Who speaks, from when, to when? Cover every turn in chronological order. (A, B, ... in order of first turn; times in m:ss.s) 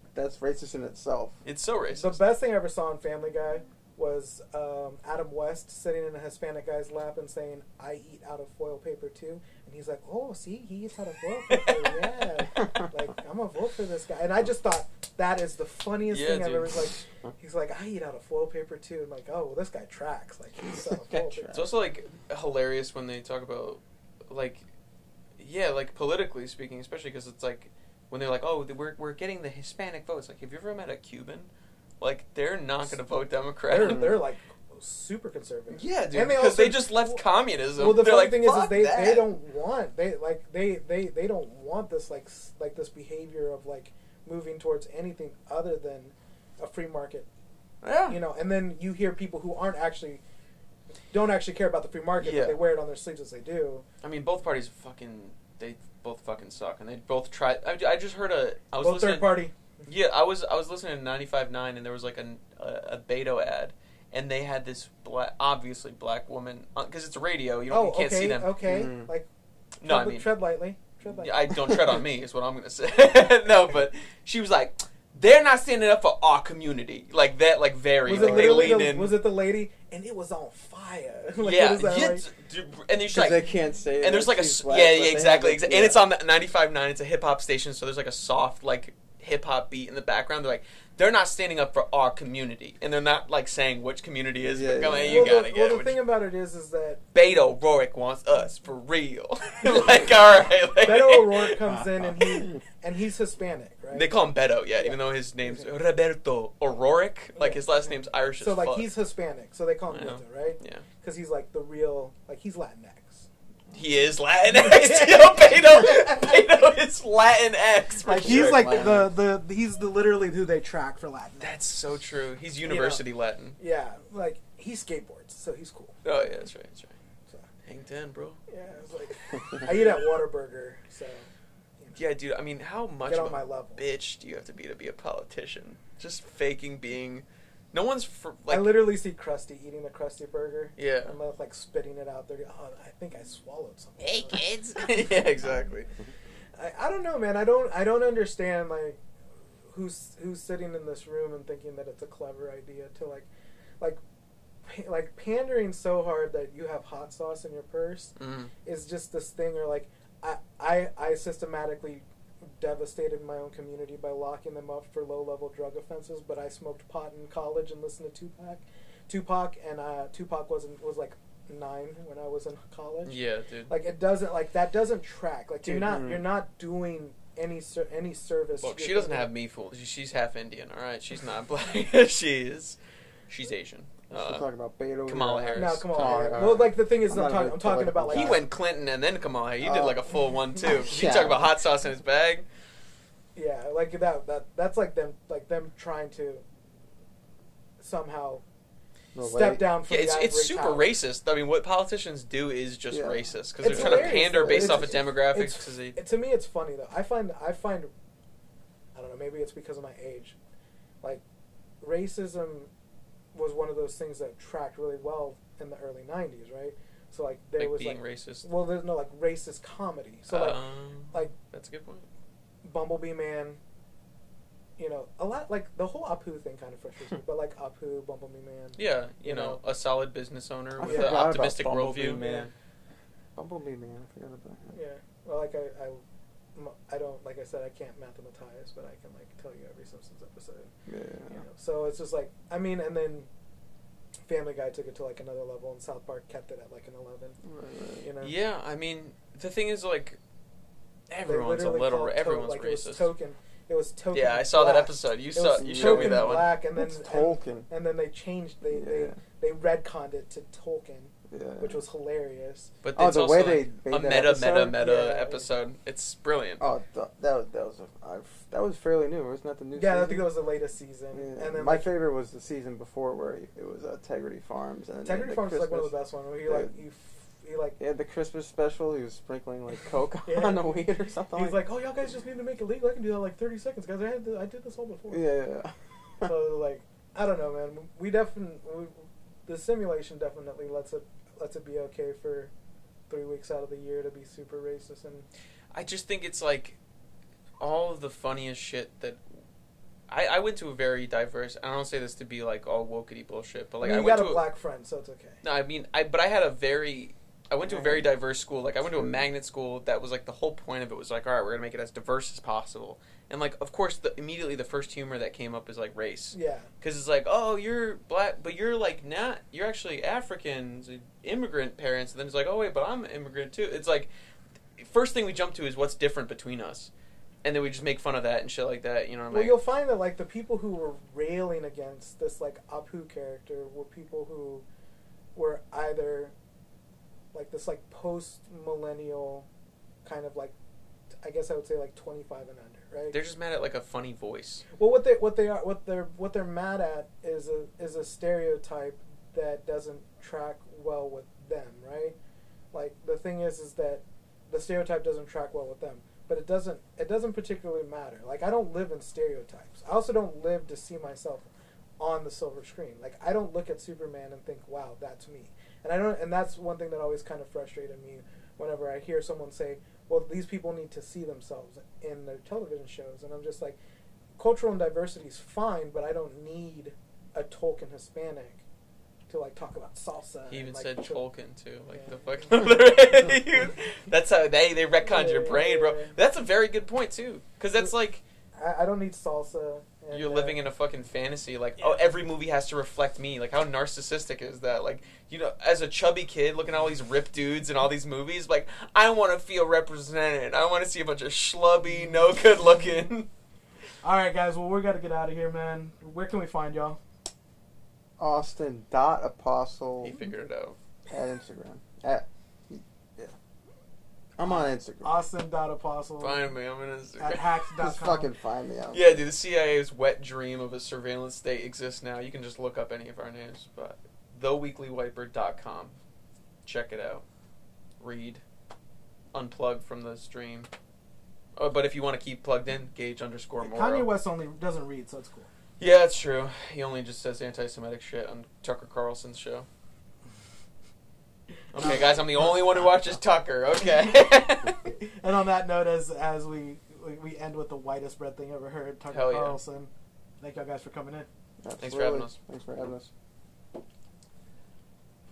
0:00.1-0:01.4 A
0:01.4-0:02.2 B
0:02.0-0:21.6 C
0:11.5-0:12.0 B
0:16.1-0:16.9 B
0:20.9-0:21.7 A
0:21.5-0:24.6 B
0:25.4-0:34.2 B
0:33.7-0:37.2 C
0:33.8-0:34.1 A
0:35.7-0:39.3 B
0:37.8-0:47.3 C
0:47.8-0:48.2 B
0:48.1-0:50.2 C
0:51.1-0:53.8 C
0:52.2-0:52.6 B
0:54.0-1:08.6 B
0:58.8-0:59.5 C
1:07.7-1:09.3 C
1:08.6-1:09.1 A
1:09.8-1:10.3 B
1:09.8-1:11.5 C
1:11.2-1:19.2 B
1:18.0-1:22.3 C
1:18.1-1:18.9 A
1:21.4-1:23.5 B
1:23.1-1:26.0 A
1:24.0-1:36.0 B
1:34.5-1:35.4 A
1:35.1-1:37.0 C
1:37.1-1:41.6 B
1:40.8-1:44.1 C
1:43.9-1:48.9 B
1:47.4-1:47.6 C
1:48.4-1:53.3 C
1:49.9-1:50.8 B
1:53.7-1:59.1 B
1:54.5-1:56.3 C
1:58.0-2:01.6 C
1:58.2-1:59.0 A
2:01.4-2:03.6 B
2:02.6-2:03.0 C
2:03.6-2:06.0 C
2:06.0-2:06.9 B
2:07.6-2:08.4 B
2:08.5-2:11.3 C
2:12.0-2:18.9 B
2:13.0-2:13.8 C
2:18.5-2:25.2 C
2:20.8-2:21.1 B
2:24.0-2:25.9 B
2:26.6-2:29.0 C
2:29.7-2:33.3 C
2:34.6-2:38.1 C
2:38.2-2:38.5 B
2:38.6-2:53.2 C
2:53.0-2:53.7 B
2:53.7-2:59.3 C
2:55.6-2:56.0 B
2:55.8-2:56.2 A
2:58.6-3:02.8 B
3:03.3-3:04.4 B
3:04.1-3:08.4 A
3:05.0-3:06.4 B
3:05.6-3:08.4 C
3:08.1-3:12.4 B
3:09.6-3:10.0 A
3:10.6-3:11.6 A
3:13.3-3:16.4 C
3:17.8-3:18.4 C
3:19.1-3:19.7 A
3:19.3-3:20.9 C
3:19.9-3:26.0 B
3:22.9-3:25.0 A
3:23.6-3:27.9 C
3:28.9-3:30.4 C
3:31.8-3:32.7 C
3:33.3-3:40.6 C
3:37.6-3:38.5 B
3:40.3-3:42.0 B
3:42.6-3:43.6 C
3:44.8-3:49.6 C
3:48.8-3:52.2 B
3:50.8-3:52.5 A
3:50.9-3:51.3 C
3:52.0-3:52.5 C
3:53.4-3:54.7 A
3:54.7-3:56.0 C
3:56.6-4:00.7 C
4:00.9-4:01.4 A
4:01.3-4:03.3 C
4:04.3-4:07.4 C
4:07.4-4:08.0 A
4:08.0-4:08.3 C
4:08.2-4:10.2 B
4:11.1-4:13.1 B
4:11.2-4:22.7 C
4:14.1-4:16.6 B
4:15.6-4:17.7 A
4:18.7-4:19.2 A
4:21.3-4:21.8 A
4:22.8-4:26.6 B
4:22.9-4:24.6 A
4:24.2-4:25.5 C
4:26.6-4:30.3 A
4:29.7-4:32.0 C
4:31.1-4:35.9 A
4:35.0-4:37.8 C
4:36.4-4:36.8 A
4:37.8-4:41.6 A
4:40.2-4:40.8 C
4:41.3-4:45.3 C
4:45.1-4:46.3 A
4:46.2-4:52.5 C
4:53.1-4:55.3 C
4:55.7-4:56.8 B
4:57.6-4:59.2 B
5:00.1-5:04.4 B
5:03.8-5:05.4 C
5:05.4-5:24.1 B
5:16.3-5:16.7 C
5:24.8-5:26.9 B
5:27.4-5:29.6 B
5:29.3-5:34.6 C
5:35.3-5:36.3 C
5:37.3-5:39.5 C
5:40.0-5:40.5 C
5:41.2-5:43.2 C
5:43.1-5:44.6 B
5:44.8-5:52.2 C
5:52.7-6:01.5 C
6:02.0-6:13.8 C
6:14.4-6:18.6 C
6:19.3-6:21.2 C
6:20.5-6:28.2 B
6:21.9-6:22.5 C
6:25.1-6:26.1 C
6:28.6-6:30.6 C
6:30.1-6:43.3 B
6:44.0-6:47.0 C
6:48.2-6:50.1 A
6:50.0-6:50.8 B
6:51.1-6:53.3 A
6:54.4-6:55.2 A
6:54.4-6:56.4 C
6:56.2-6:57.6 B
6:57.2-6:58.3 C
6:57.8-6:59.3 A
6:58.9-7:06.0 B
7:06.6-7:07.2 B
7:08.0-7:08.4 B
7:09.3-7:10.7 B
7:11.6-7:14.1 B
7:13.6-7:15.5 C
7:15.8-7:19.7 B
7:21.7-7:24.9 B
7:21.8-7:22.1 C
7:25.0-7:29.9 C
7:29.1-7:29.6 B
7:30.4-7:31.3 C
7:31.6-7:33.1 A
7:31.8-7:32.3 B